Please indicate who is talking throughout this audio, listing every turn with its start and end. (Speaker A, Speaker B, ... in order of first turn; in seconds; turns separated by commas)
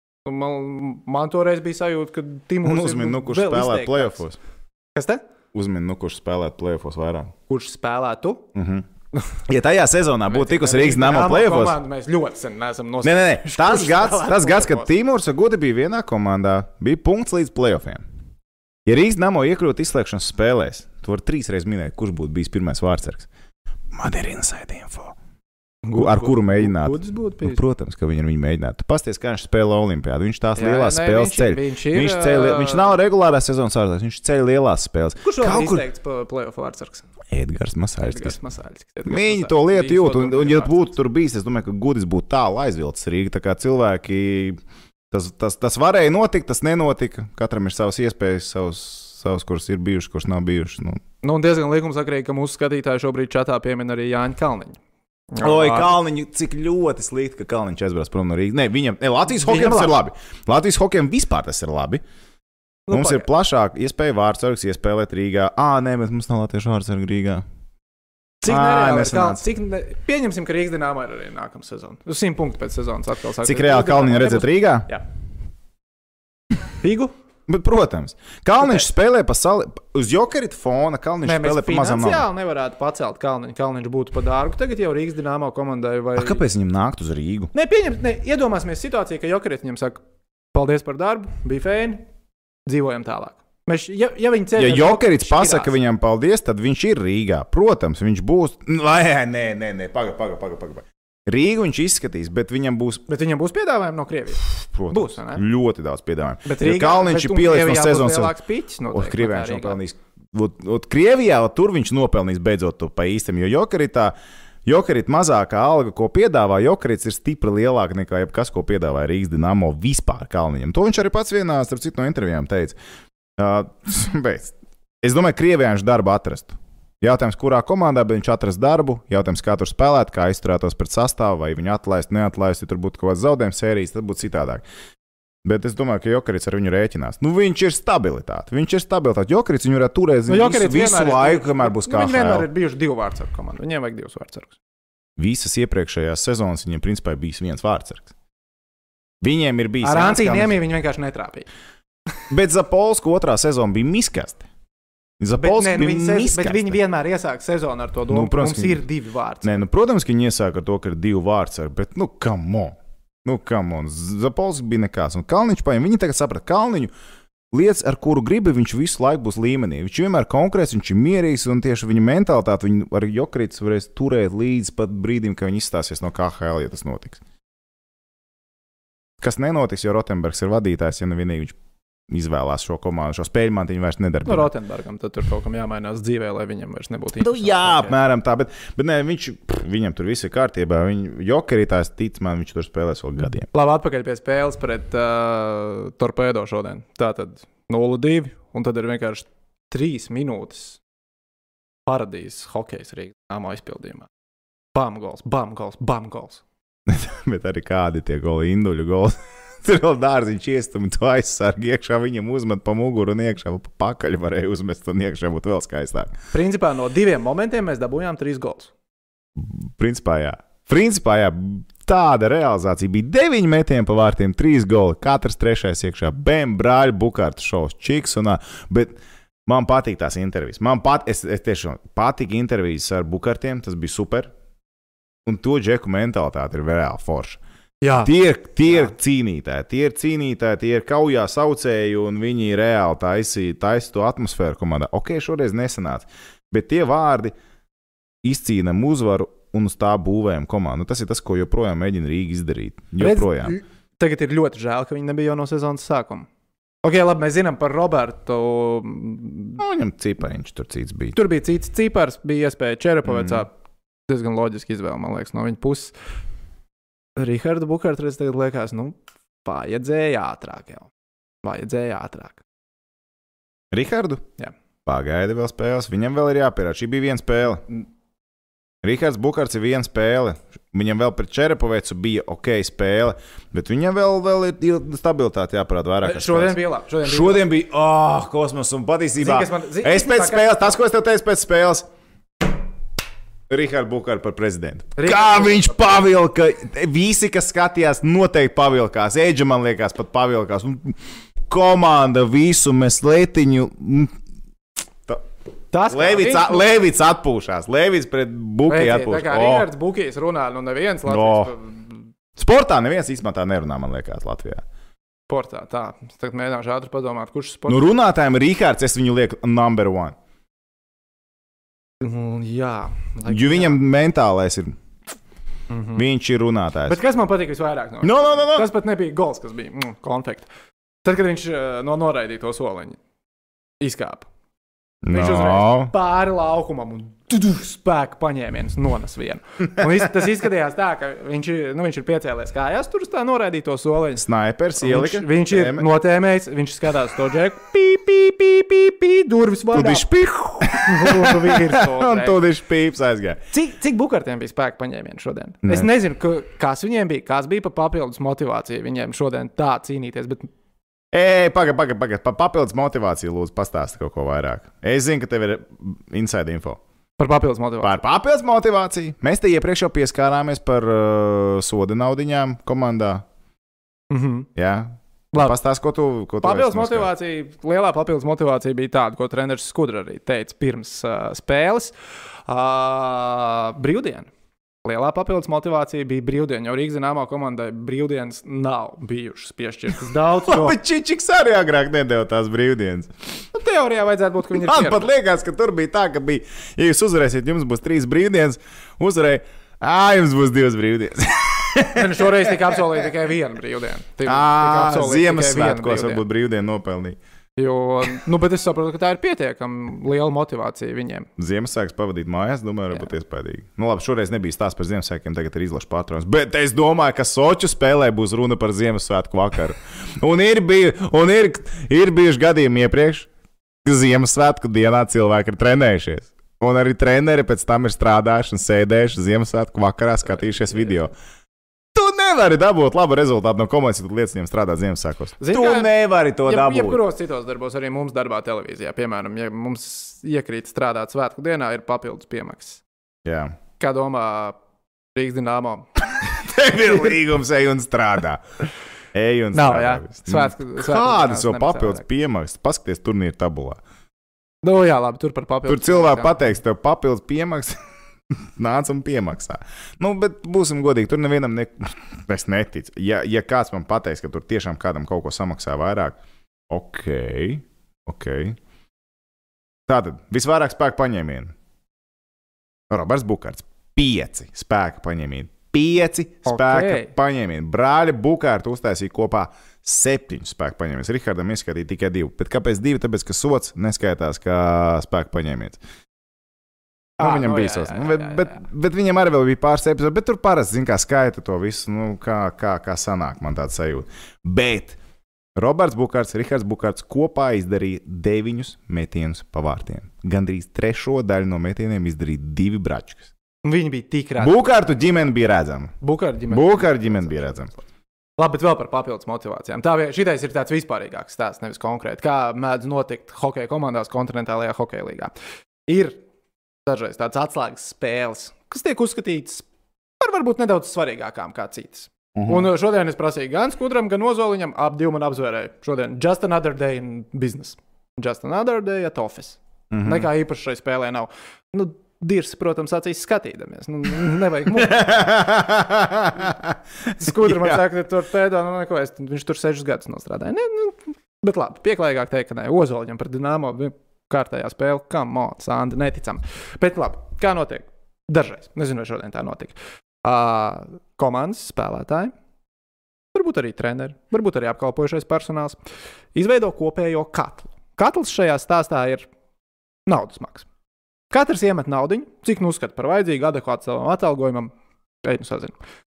Speaker A: 0.2-4.2, Speaker B: 2.6-4.4, Speaker A: 4.9-5.2, Speaker B: 5.5-7.3, Speaker A: 7.5-8.4, Speaker B: 8.5-8.8, Speaker B: 9.5-11.8, Speaker A: 10.3-14.9, Speaker B: 13.0-18.0, Speaker B: 18.9-23.3, Speaker B: 23.9-25.1, Speaker A: 25.8-27.6, Speaker B: 25.9-35.8, Speaker A: 30.6-33.0, Speaker A: 35.2-37.0, Speaker B: 37.3-38.4, Speaker A: 38.0-40.8, Speaker B: 39.0-44.6, Speaker B: 45.1-51.0, Speaker A: 51.2-54.8, Speaker A: 55.3-55.9, Speaker B: 55.4-62.0, Speaker A: 59.3-59.9, Speaker A: 62.9-63.3, Speaker B: 62.9-67.4, Speaker A: 68.4-75.0, Speaker B: 68.4-69.4, Speaker B: 73.4-74.9, Speaker A: 76.8-77.1, Speaker B: 77.5-82.3, Speaker A: 78.6-78.8, Speaker A: 81.2-86.4, Speaker B: 86.2-87.5, Speaker A: 87.5-90.0, Speaker A: 90.5-92.0, Speaker A: 92.7-95.7, Speaker B: 94.6-103.0, Speaker A: 103.1-105.4, Speaker B: 104.6-108.4, Speaker A: 106.4-109.8, Speaker B: 108.9-114.1, Speaker B: 114.7-122.8, Speaker B: 123.4-134.6, Speaker B: 135.4-142.5, Speaker A: 140.3-144.5, Speaker B: 145.2-148.1, Speaker B: 149.2-150.6, Speaker A: 149.8-151.4, Speaker B: 152.3-154.5, Speaker B: 155.2-156.8, Speaker A: 155.3-159.6, Speaker B: 158.1-158.8, Speaker B: 159.4-166.9, Speaker B: 167.5-177.2, Speaker B: 179.2-181.6, Speaker B: 182.1-184.5, Speaker A: 184.2-187.9, Speaker B: 187.2-193.5, Speaker A: 193.5-200.8, Speaker A: 201.8-204.1, Speaker A: 204.7-206.4, Speaker B: 206.9-216.1, Speaker A: 216.3-218.7, Speaker B: 219.3-234.3, Speaker B: 235.2-237.4, Speaker A: 237.8-238.1, Speaker B: 238.0-247.3, Speaker B: 248.2-253.5, Speaker A: 253.0-256.3, Speaker A: 256.8-259.6, Speaker B: 259.6-261.1, Speaker A: 261.1-263.5, Speaker B: 263.1-263.4, Speaker A: 264.1-265.9, Speaker A: 267.1-270.9, Speaker A: 271.4-272.4, Speaker B: 273.7-274.2, Speaker B: 274.9-277.6, Speaker B: 278.8-291.9, Speaker A: 286.0-287.4, Speaker A: 289.2-290.8, Speaker B: 293.5-300.9, Speaker A: 294.9-295.8, Speaker B: 301.5-304.1, Speaker A: 305.7-306.7, Speaker B: 305.9-309.7, Speaker A: 308.7-312.0, Speaker B: 311.1-311.5, Speaker B: 312.4-314.6, Speaker A: 315.3-317.9, Speaker B: 317.7-320.1, Speaker A: 322.0-323.8, Speaker B: 323.3-324.7, Speaker A: 325.7-326.0, Speaker B: 325.9-327.0, Speaker A: 326.9-330.5, Speaker B: 328.0-328.7, Speaker A: 331.0-333.0, Speaker A: 333.8-334.3, Speaker B: 335.0-335.9, Speaker A: 335.1-344.2, Speaker B: 344.2-345.9, Speaker A: 344.8-350.1, Speaker B: 349.7-353.4, Speaker A: 350.7-352.4, Speaker A: 353.5-360.5, Speaker B: 355.6-355.9, Speaker B: 361.1-366.8, Speaker A: 367.2-367.9, Speaker B: 367.8-373.2, Speaker A: 374.1-374.5, Speaker B: 374.6-377.1, Speaker A: 376.4-381.9, Speaker A: 382.5-384.3, Speaker A: 384.8-390.8, Speaker B: 390.4-393.1, Speaker A: 393.5-395.1, Speaker B: 394.5-402.9, Speaker A: 401.9-406.2, Speaker B: 404.2-407.2, Speaker A: 407.6-411.3, Speaker B: 411.4-423.3, Speaker B: 423.8-431.1, Speaker B: 431.9-437.0, Speaker A: 435.4-435.9, Speaker A: 436.4-442.8, Speaker B: 443.2-443.6, Speaker A: 443.8-444.6, Speaker A: 445.1-445.9, Speaker B: 446.2-448.4, Speaker B: 449.1-453.8, Speaker A: 449.5-452.0, Speaker A: 454.6-456.4, Speaker B: 455.6-457.8, Speaker B: 458.6-466.2, Speaker B: 466.7-468.6, Speaker B: 469.9-471.5, Speaker B: 472.9-485.8, Speaker A: 476.4-477.1, Speaker B: 487.2-495.0, Speaker A: 487.2-488.6, Speaker B: 495.6-503.3, Speaker A: 503.6-504.7, Speaker B: 504.4-505.9, Speaker A: 506.0-507.8, Speaker B: 506.5-507.7, Speaker A: 508.4-515.3, Speaker A: 515.9-516.2, Speaker A: 516.9-519.6, Speaker A: 520.2-535.1, Speaker B: 522.3-522.7, Speaker B: 529.9-530.3, Speaker B: 534.7-537.8, Speaker A: 537.2-552.3, Speaker A: 553.3-555.8, Speaker A: 556.3-559.3, Speaker A: 560.1-560.6, Speaker A: 561.3-564.7, Speaker A: 565.2-565.8